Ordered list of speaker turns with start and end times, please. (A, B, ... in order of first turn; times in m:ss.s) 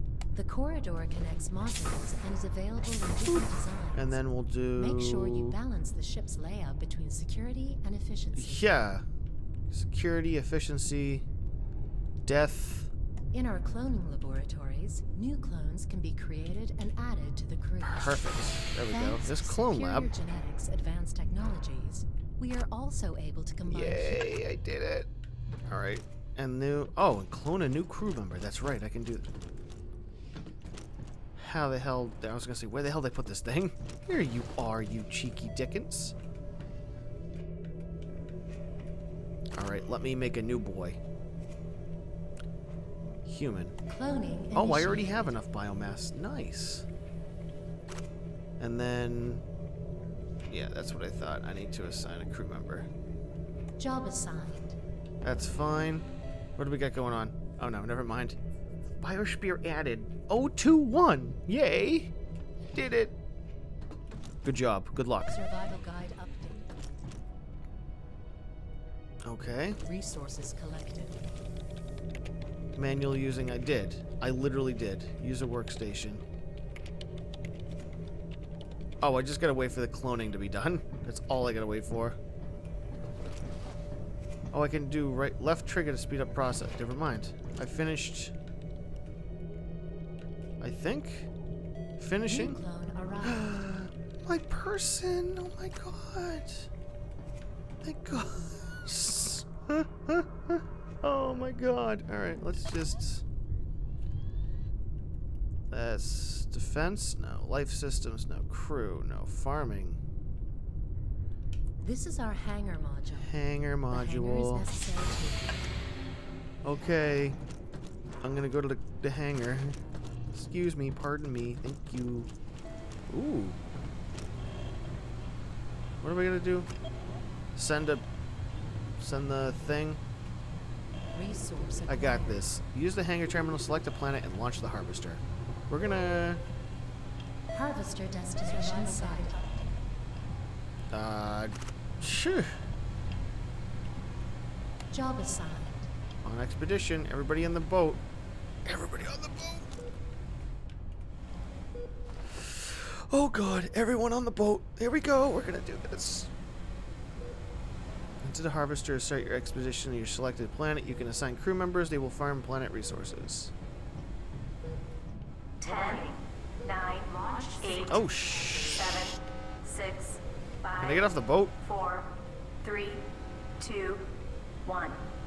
0:00.3-0:04.2 A
0:03.9-0:05.6 B
0:04.7-0:08.7 A
0:08.4-0:09.0 B
0:09.7-0:11.2 B
0:12.2-0:12.9 B
0:13.3-0:18.3 A
0:17.8-0:20.1 B
0:18.9-0:24.2 A
0:23.7-0:25.1 B
0:25.7-0:29.3 B
0:31.3-0:36.1 B
0:39.5-0:41.0 B
0:43.2-0:43.8 B
0:43.8-0:45.4 A
0:44.5-0:46.9 B
0:48.6-0:49.4 B
0:50.5-0:52.9 B
0:53.8-0:54.8 A
0:55.2-0:58.4 B
0:59.0-1:02.1 B
1:02.7-1:03.1 B
1:04.4-1:05.3 B
1:05.3-1:06.7 A
1:09.2-1:09.8 B
1:09.8-1:11.2 A
1:12.8-1:16.2 B
1:19.0-1:22.2 B
1:24.5-1:28.3 B
1:30.6-1:31.3 B
1:32.0-1:32.6 B
1:32.2-1:33.7 A
1:33.2-1:36.7 B
1:37.8-1:43.2 B
1:45.7-1:50.0 B
1:51.8-1:53.3 A
1:53.2-1:54.6 B
1:53.9-1:55.6 A
1:56.6-1:57.4 B
1:58.2-1:59.8 B
2:00.3-2:02.3 B
2:03.1-2:03.6 B
2:06.0-2:06.7 B
2:07.5-2:08.0 B
2:09.0-2:10.0 B
2:11.1-2:12.5 A
2:11.9-2:16.4 B
2:17.5-2:19.4 A
2:18.6-2:19.5 C
2:20.9-2:22.6 B
2:24.9-2:25.9 A
2:26.2-2:28.0 B
2:28.6-2:29.7 B
2:32.3-2:36.3 B
2:38.2-2:43.5 B
2:45.6-2:52.1 C
2:47.9-2:48.8 B
2:50.8-2:51.5 B
2:52.6-2:53.0 C
2:53.6-2:54.1 C
2:54.6-2:55.0 C